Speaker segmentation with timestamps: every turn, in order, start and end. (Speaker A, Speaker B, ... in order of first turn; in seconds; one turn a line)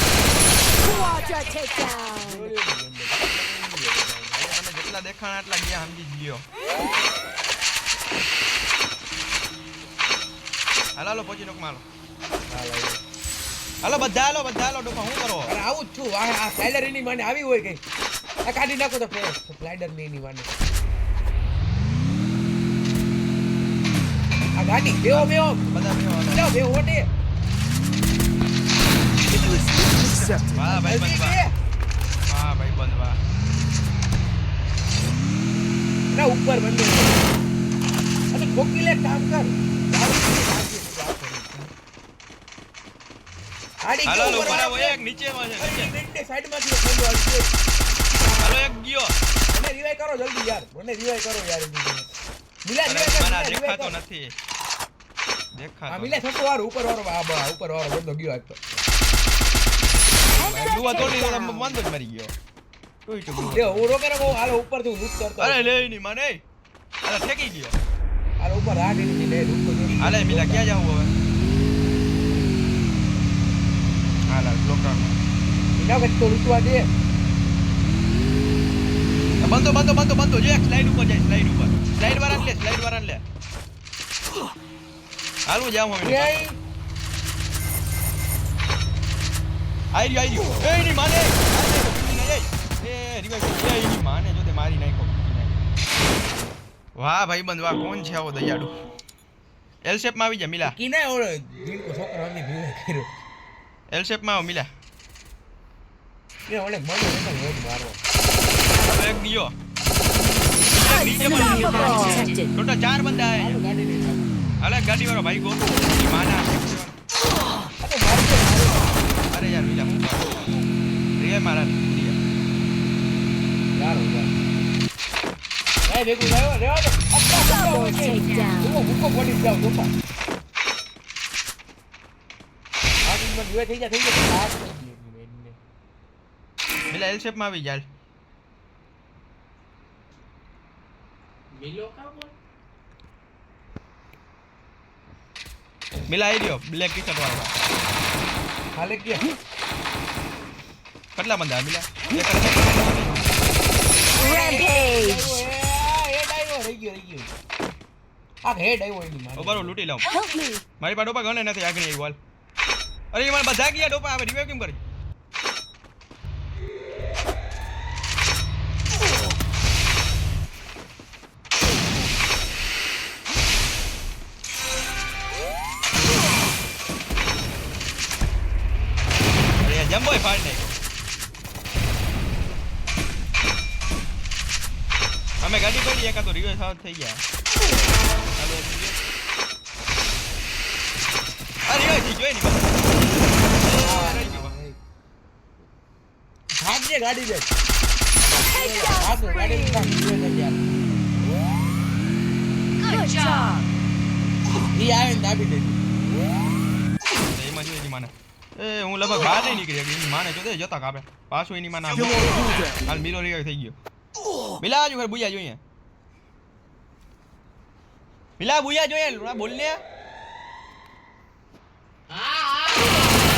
Speaker A: 0.8-2.5
Speaker B: 2.2-4.6
Speaker C: 4.4-6.4
Speaker C: 10.9-11.8
Speaker B: 12.5-13.0
Speaker C: 13.8-15.5
Speaker B: 15.4-17.8
Speaker B: 18.4-20.5
Speaker B: 24.6-25.7
Speaker C: 25.1-26.5
Speaker B: 26.3-27.1
Speaker C: 30.5-31.4
Speaker B: 30.6-31.5
Speaker C: 32.3-33.2
Speaker B: 36.1-37.2
Speaker B: 38.3-41.7
Speaker B: 43.8-45.0
Speaker C: 44.0-45.9
Speaker B: 45.6-47.5
Speaker C: 48.4-49.1
Speaker B: 49.5-52.1
Speaker B: 52.6-54.0
Speaker C: 52.9-54.3
Speaker C: 55.5-56.2
Speaker B: 55.9-58.6
Speaker C: 60.3-62.3
Speaker A: 60.3-61.6
Speaker C: 63.0-63.9
Speaker B: 63.5-66.0
Speaker C: 65.4-66.4
Speaker C: 67.0-67.8
Speaker B: 68.4-70.7
Speaker C: 70.0-71.1
Speaker C: 74.3-75.2
Speaker B: 75.8-76.9
Speaker C: 79.4-83.2
Speaker C: 85.5-86.4
Speaker B: 86.0-86.6
Speaker C: 89.9-95.5
Speaker C: 97.0-98.7
Speaker C: 99.8-100.8
Speaker B: 100.6-103.1
Speaker C: 103.9-104.7
Speaker B: 106.5-108.0
Speaker C: 108.7-109.5
Speaker C: 110.7-113.6
Speaker A: 110.8-112.5
Speaker B: 113.3-114.3
Speaker C: 114.6-116.9
Speaker B: 117.8-119.1
Speaker C: 119.3-120.4
Speaker C: 121.2-122.2
Speaker B: 123.7-124.3
Speaker B: 125.8-129.9
Speaker A: 127.5-128.8
Speaker B: 133.1-135.6
Speaker C: 136.9-137.9
Speaker B: 141.5-142.3
Speaker C: 146.1-147.5
Speaker B: 148.7-149.3
Speaker C: 151.2-153.3
Speaker B: 154.1-157.3
Speaker A: 154.2-155.3
Speaker B: 158.4-159.8
Speaker C: 159.3-160.1
Speaker A: 160.1-160.6
Speaker C: 160.8-162.2
Speaker C: 163.1-164.8
Speaker C: 179.6-180.8
Speaker C: 185.4-187.2
Speaker C: 188.3-189.0
Speaker C: 191.6-192.9
Speaker C: 193.5-194.6
Speaker B: 193.8-194.8
Speaker B: 196.6-197.5
Speaker B: 198.3-200.9
Speaker A: 198.4-199.8
Speaker A: 202.8-203.6
Speaker B: 204.7-205.9
Speaker C: 207.2-213.8
Speaker C: 214.6-215.6
Speaker C: 218.4-219.8
Speaker B: 222.1-223.1